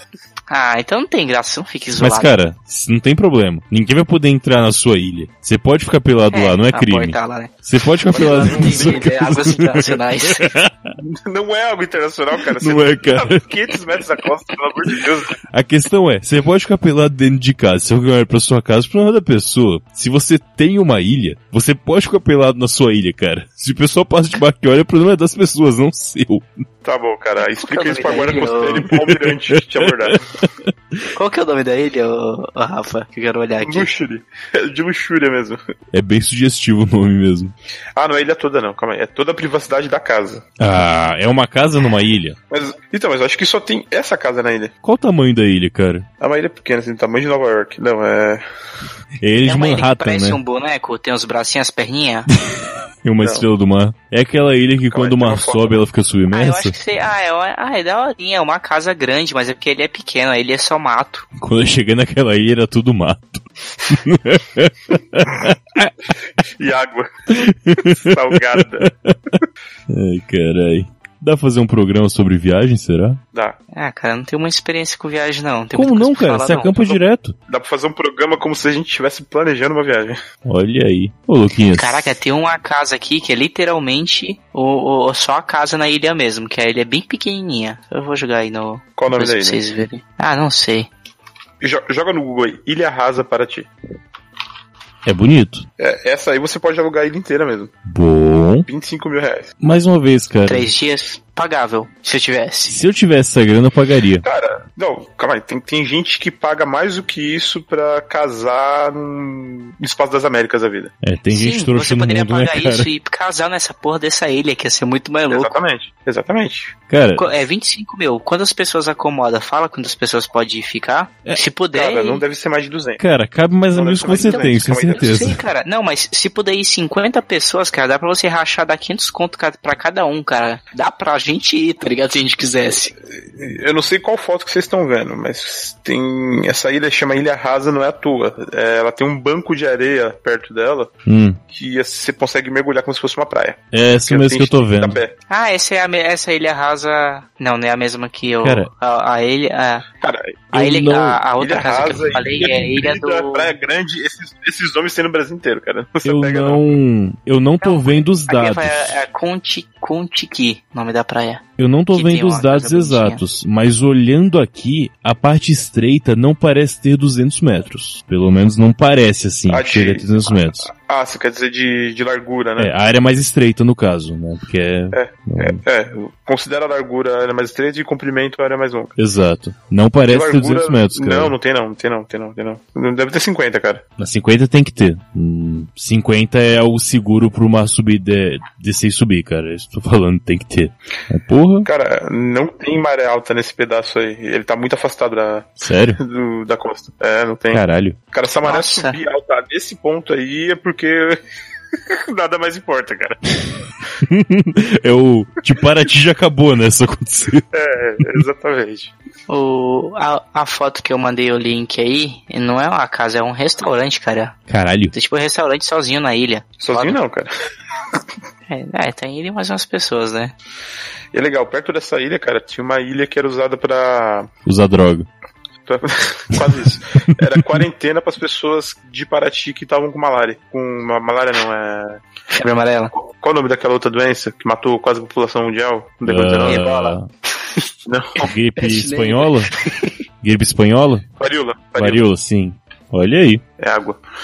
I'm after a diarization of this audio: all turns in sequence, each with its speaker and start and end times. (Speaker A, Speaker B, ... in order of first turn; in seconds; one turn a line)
Speaker A: 0.5-2.3
Speaker B: 2.0-10.9
Speaker A: 6.3-7.5
Speaker A: 8.1-10.5
Speaker C: 8.1-9.0
Speaker C: 11.0-15.4
Speaker B: 12.6-13.7
Speaker B: 15.5-26.4
Speaker C: 26.8-30.2
Speaker A: 27.6-28.9
Speaker B: 28.9-30.7
Speaker A: 31.1-33.9
Speaker C: 33.6-35.6
Speaker B: 35.9-37.5
Speaker C: 38.0-40.4
Speaker B: 40.6-42.4
Speaker C: 42.5-44.7
Speaker B: 44.8-46.1
Speaker C: 46.2-48.4
Speaker B: 49.2-50.4
Speaker A: 49.4-52.3
Speaker B: 53.0-56.8
Speaker C: 53.2-53.5
Speaker C: 54.9-55.8
Speaker A: 56.3-61.2
Speaker B: 61.4-65.9
Speaker C: 66.6-68.9
Speaker B: 67.3-73.2
Speaker A: 73.7-76.9
Speaker B: 75.7-77.3
Speaker C: 77.5-80.2
Speaker B: 80.5-82.2
Speaker A: 81.7-90.9
Speaker C: 89.0-89.6
Speaker C: 91.6-93.7
Speaker B: 95.0-95.7
Speaker C: 95.8-97.7
Speaker B: 97.8-98.7
Speaker C: 98.7-99.5
Speaker B: 99.6-100.7
Speaker A: 100.5-102.7
Speaker B: 102.7-104.2
Speaker C: 104.2-110.9
Speaker B: 111.0-112.9
Speaker A: 111.3-115.5
Speaker C: 115.3-116.7
Speaker B: 116.9-117.4
Speaker A: 117.2-122.2
Speaker C: 121.7-123.0
Speaker B: 123.0-125.4
Speaker C: 123.7-125.3
Speaker A: 124.2-132.9
Speaker C: 133.2-140.9
Speaker B: 141.1-141.4
Speaker C: 141.5-145.1
Speaker B: 143.7-145.0
Speaker A: 145.3-149.8
Speaker B: 148.4-148.7
Speaker C: 150.0-150.4
Speaker B: 150.5-151.2
Speaker A: 150.5-153.5
Speaker C: 151.4-156.6
Speaker B: 156.0-159.0
Speaker A: 157.6-161.4
Speaker B: 161.6-170.7
Speaker A: 161.9-163.2
Speaker C: 169.5-172.7
Speaker B: 172.6-175.6
Speaker C: 174.9-178.9
Speaker B: 179.0-181.3
Speaker C: 180.1-183.8
Speaker B: 184.0-191.7
Speaker C: 191.6-201.2
Speaker B: 195.6-196.0
Speaker B: 197.5-198.0
Speaker A: 198.4-199.0
Speaker C: 201.9-203.2
Speaker B: 204.0-207.4
Speaker C: 207.5-208.9
Speaker A: 209.3-214.3
Speaker B: 214.5-214.9
Speaker A: 214.9-217.0
Speaker C: 216.6-217.3
Speaker A: 218.5-220.3
Speaker C: 221.1-224.3
Speaker B: 224.4-225.1
Speaker C: 225.7-232.0
Speaker A: 232.3-232.9
Speaker C: 233.1-236.9
Speaker B: 236.1-237.1
Speaker A: 236.4-236.9
Speaker C: 237.8-238.2
Speaker B: 238.2-239.5
Speaker A: 238.6-239.3
Speaker B: 240.2-241.0
Speaker C: 241.2-242.1
Speaker B: 241.8-243.4
Speaker C: 243.6-244.0